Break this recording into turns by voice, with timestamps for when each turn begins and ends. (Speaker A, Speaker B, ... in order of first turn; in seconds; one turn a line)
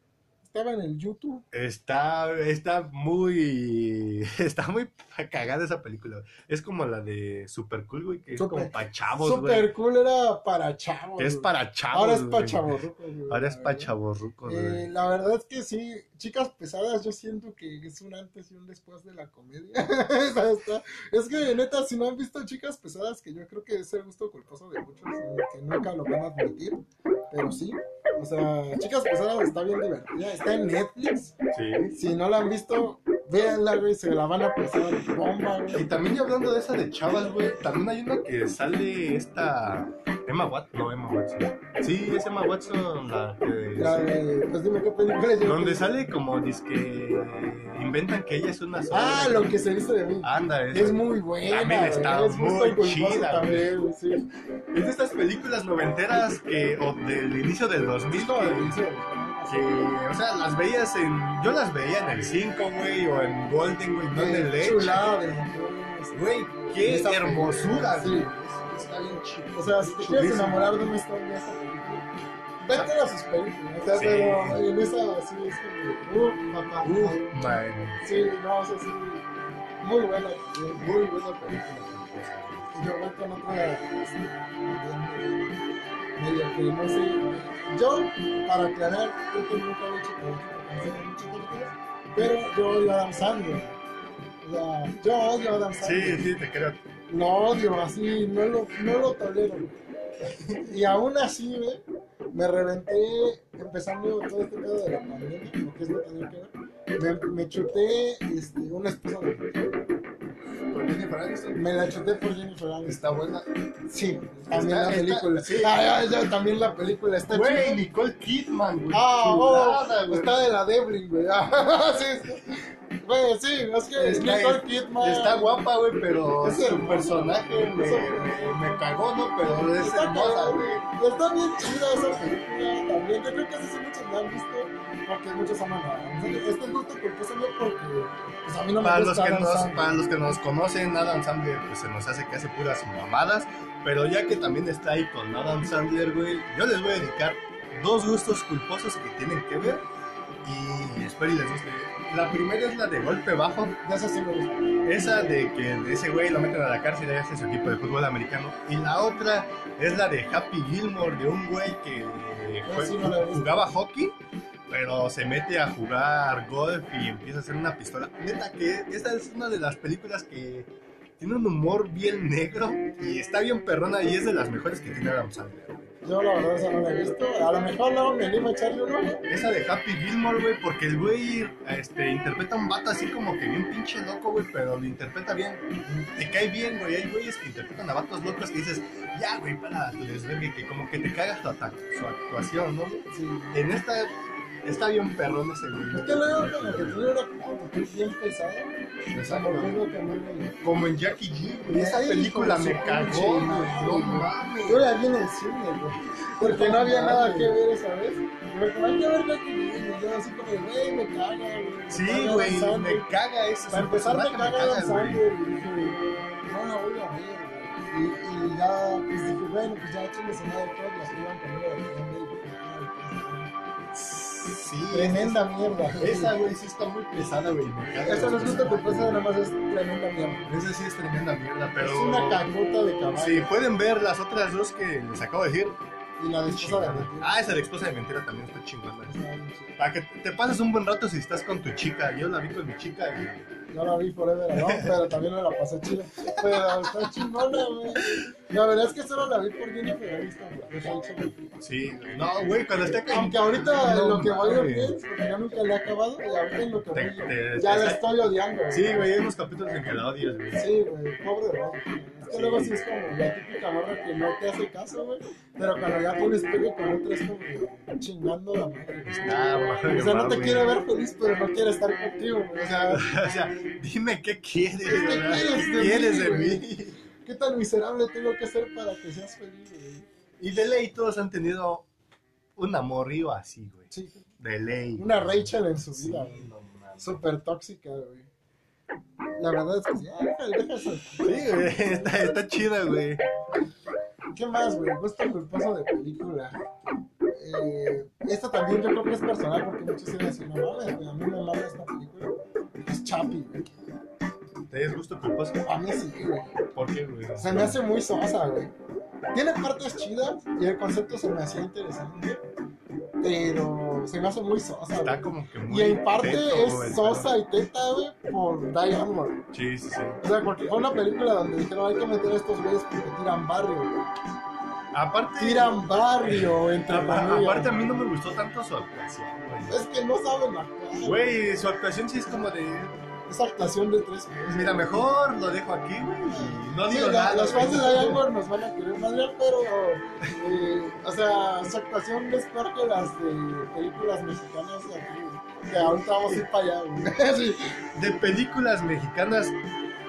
Speaker A: 0.4-1.4
Speaker B: 1.5-9.7
Speaker A: 8.3-13.9
Speaker B: 11.2-12.7
Speaker B: 13.3-14.9
Speaker A: 14.5-31.3
Speaker B: 31.5-31.9
Speaker A: 31.9-35.9
Speaker B: 35.7-44.1
Speaker A: 43.7-45.9
Speaker B: 45.4-49.5
Speaker A: 48.9-54.3
Speaker B: 50.2-53.7
Speaker B: 54.7-58.8
Speaker A: 58.1-59.9
Speaker B: 59.5-65.1
Speaker A: 64.1-68.3
Speaker B: 66.1-70.9
Speaker A: 69.5-72.1
Speaker A: 72.6-77.4
Speaker B: 73.9-74.6
Speaker B: 76.8-78.0
Speaker A: 78.0-79.3
Speaker A: 79.8-80.9
Speaker B: 80.8-82.7
Speaker A: 82.7-93.8
Speaker A: 94.4-96.3
Speaker B: 95.8-96.8
Speaker A: 97.1-99.8
Speaker B: 100.2-100.7
Speaker A: 100.6-109.7
Speaker B: 110.7-111.7
Speaker A: 111.5-113.1
Speaker B: 112.8-113.5
Speaker A: 113.9-117.8
Speaker B: 114.5-115.8
Speaker B: 117.3-120.3
Speaker A: 118.9-125.7
Speaker B: 123.9-130.8
Speaker A: 126.4-128.6
Speaker A: 129.4-140.4
Speaker B: 138.8-149.8
Speaker B: 150.4-153.8
Speaker A: 153.8-155.5
Speaker B: 154.8-175.9
Speaker A: 162.7-163.5
Speaker A: 176.0-179.2
Speaker B: 179.3-185.6
Speaker A: 185.8-186.1
Speaker B: 186.1-197.0
Speaker A: 193.1-193.6
Speaker A: 195.9-200.6
Speaker B: 199.1-199.8
Speaker B: 200.6-204.9
Speaker A: 201.7-213.1
Speaker B: 206.3-207.6
Speaker B: 211.9-215.2
Speaker A: 213.7-223.5
Speaker B: 223.9-229.2
Speaker A: 224.9-226.3
Speaker A: 228.0-230.5
Speaker B: 230.4-232.4
Speaker A: 231.8-233.5
Speaker B: 233.2-235.8
Speaker A: 236.2-237.4
Speaker B: 236.4-239.1
Speaker A: 239.1-239.8
Speaker B: 239.8-243.5
Speaker A: 243.7-251.6
Speaker B: 244.5-245.1
Speaker B: 246.2-247.3
Speaker B: 251.6-255.0
Speaker A: 253.1-259.1
Speaker B: 256.9-260.6
Speaker A: 260.5-273.1
Speaker B: 262.3-262.8
Speaker B: 269.1-270.8
Speaker B: 272.9-277.0
Speaker A: 274.8-276.7
Speaker A: 277.2-280.1
Speaker B: 280.4-281.9
Speaker B: 282.6-287.2
Speaker A: 283.9-284.2
Speaker A: 285.0-288.3
Speaker A: 289.4-292.3
Speaker B: 291.2-293.2
Speaker A: 294.3-296.6
Speaker A: 297.3-303.8
Speaker B: 304.7-305.6
Speaker A: 305.6-306.6
Speaker B: 306.7-307.8
Speaker A: 307.4-308.7
Speaker A: 309.3-312.4
Speaker A: 313.2-319.4
Speaker B: 315.0-317.3
Speaker B: 319.5-320.2
Speaker A: 320.2-324.1
Speaker B: 324.9-329.8
Speaker A: 325.4-327.8
Speaker A: 329.7-331.3
Speaker B: 331.0-333.0
Speaker A: 333.3-334.9
Speaker B: 334.5-338.2
Speaker A: 336.3-347.8
Speaker B: 347.9-349.6